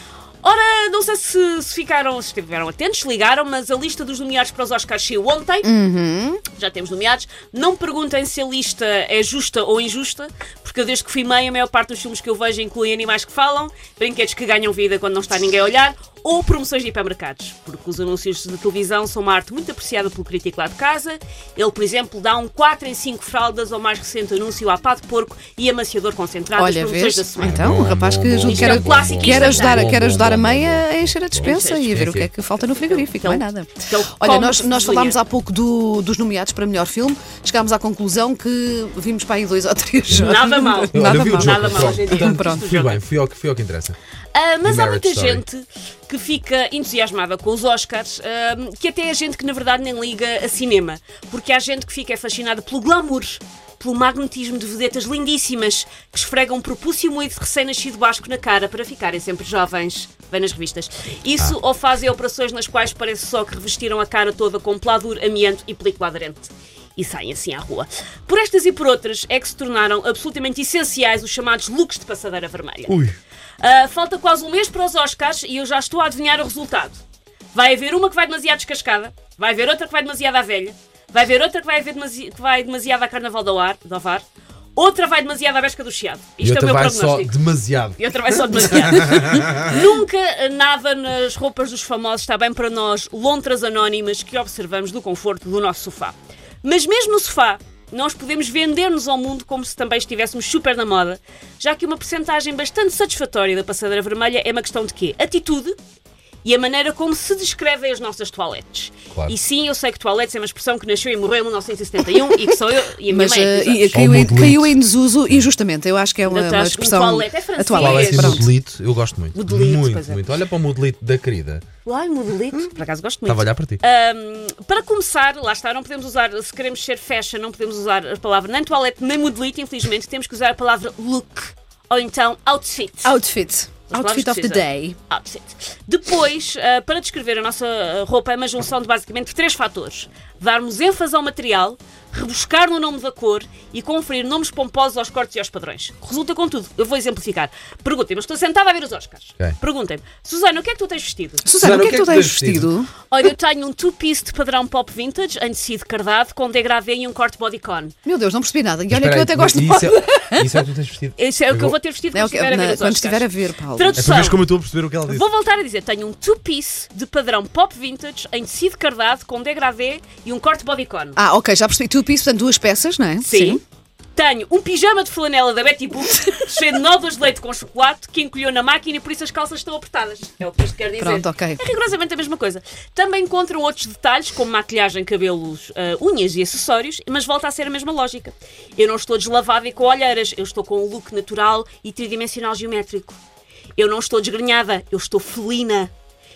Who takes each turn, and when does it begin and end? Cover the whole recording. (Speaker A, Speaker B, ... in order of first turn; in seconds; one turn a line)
Speaker A: 0.4-5.7
Speaker B: 5.7-6.4
Speaker A: 6.5-27.8
Speaker B: 26.6-42.7
Speaker C: 27.4-32.3
Speaker A: 28.4-30.0
Speaker A: 31.4-35.2
Speaker C: 40.1-40.4
Speaker A: 40.1-43.0
Speaker C: 40.9-44.0
Speaker A: 44.3-73.0
Speaker C: 44.6-45.5
Speaker C: 72.9-73.2
Speaker A: 73.6-77.0
Speaker A: 77.5-84.2
Speaker A: 84.8-87.4
Speaker C: 86.4-89.8
Speaker A: 88.0-105.8
Speaker A: 106.4-114.0
Speaker B: 113.1-118.5
Speaker C: 113.9-115.5
Speaker A: 116.3-118.5
Speaker C: 117.7-121.6
Speaker A: 119.3-120.2
Speaker A: 121.8-133.1
Speaker C: 123.2-123.8
Speaker B: 133.1-135.0
Speaker A: 133.9-151.5
Speaker B: 151.4-152.9
Speaker C: 151.6-152.7
Speaker A: 153.1-157.9
Speaker B: 158.1-160.7
Speaker C: 158.9-161.8
Speaker A: 161.2-164.5
Speaker B: 162.1-164.2
Speaker C: 163.9-165.3
Speaker A: 165.1-171.2
Speaker B: 171.2-173.6
Speaker A: 173.2-173.6
Speaker A: 174.2-193.2
Speaker B: 181.0-181.6
Speaker A: 193.8-195.9